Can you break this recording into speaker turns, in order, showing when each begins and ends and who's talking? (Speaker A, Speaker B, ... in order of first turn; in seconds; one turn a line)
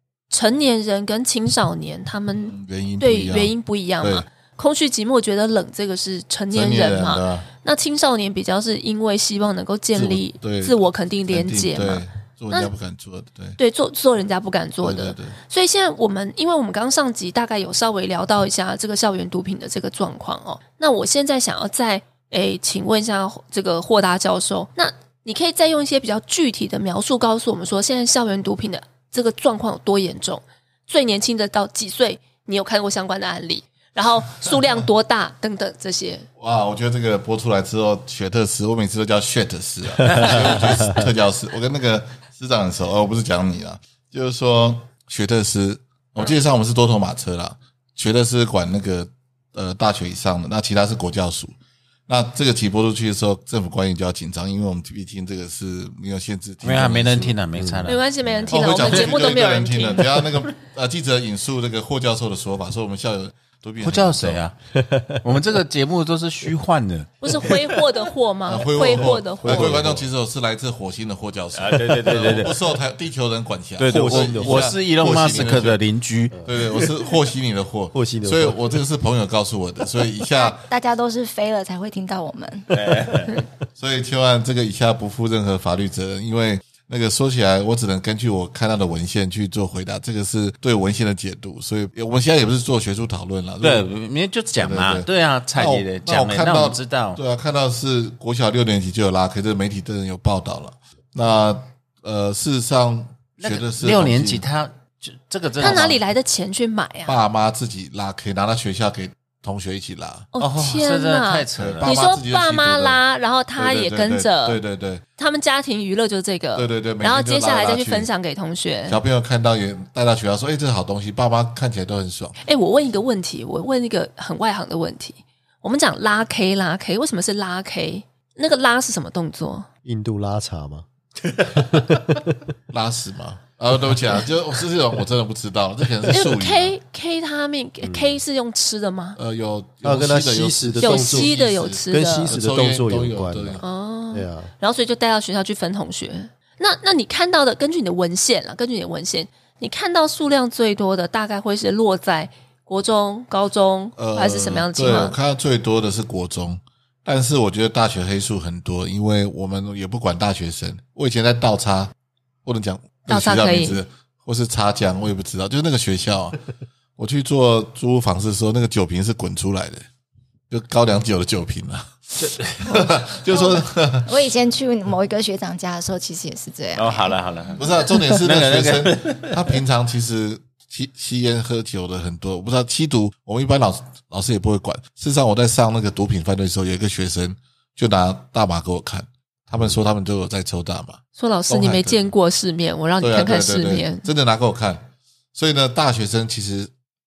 Speaker A: 0.3-12.7
Speaker B: 2.5-4.3
Speaker B: 6.5-7.5
Speaker B: 9.9-13.6
Speaker A: 13.6-36.3
Speaker B: 14.8-15.4
Speaker B: 36.4-51.5
Speaker C: 40.0-41.0
Speaker D: 40.1-40.5
Speaker B: 52.1-57.4
Speaker D: 56.6-58.0
Speaker C: 57.6-57.9
Speaker A: 57.9-60.2
Speaker B: 58.2-64.4
Speaker D: 58.6-59.3
Speaker D: 63.8-64.6
Speaker C: 64.8-65.2
Speaker D: 65.2-67.6
Speaker A: 67.2-69.7
Speaker B: 68.5-75.8
Speaker C: 69.0-70.1
Speaker D: 71.5-72.6
Speaker D: 73.8-76.9
Speaker C: 73.9-74.7
Speaker C: 76.3-76.6
Speaker B: 76.5-80.6
Speaker C: 77.9-78.8
Speaker E: 80.3-83.3
Speaker D: 82.7-83.4
Speaker B: 83.8-93.9
Speaker D: 93.6-97.2
Speaker B: 94.6-104.5
Speaker D: 103.4-105.9
Speaker B: 105.6-106.0
Speaker A: 105.6-107.2
Speaker B: 107.1-110.3
Speaker A: 110.3-114.6
Speaker D: 110.4-111.9
Speaker B: 111.6-113.0
Speaker B: 113.6-115.0
Speaker A: 115.2-119.0
Speaker B: 116.5-118.1
Speaker B: 118.9-122.4
Speaker A: 122.4-129.7
Speaker C: 129.8-132.2
Speaker B: 132.7-136.8
Speaker A: 136.1-139.2
Speaker C: 137.8-138.2
Speaker B: 139.2-143.6
Speaker C: 139.8-141.3
Speaker A: 140.8-142.3
Speaker C: 141.9-144.5
Speaker A: 143.6-155.2
Speaker B: 154.0-161.9
Speaker B: 162.4-166.4
Speaker A: 163.1-163.8
Speaker B: 167.0-169.8
Speaker B: 170.5-174.1
Speaker D: 172.2-172.6
Speaker E: 173.3-177.2
Speaker D: 176.8-179.5
Speaker B: 177.6-192.0
Speaker A: 191.2-194.1
Speaker B: 193.0-196.7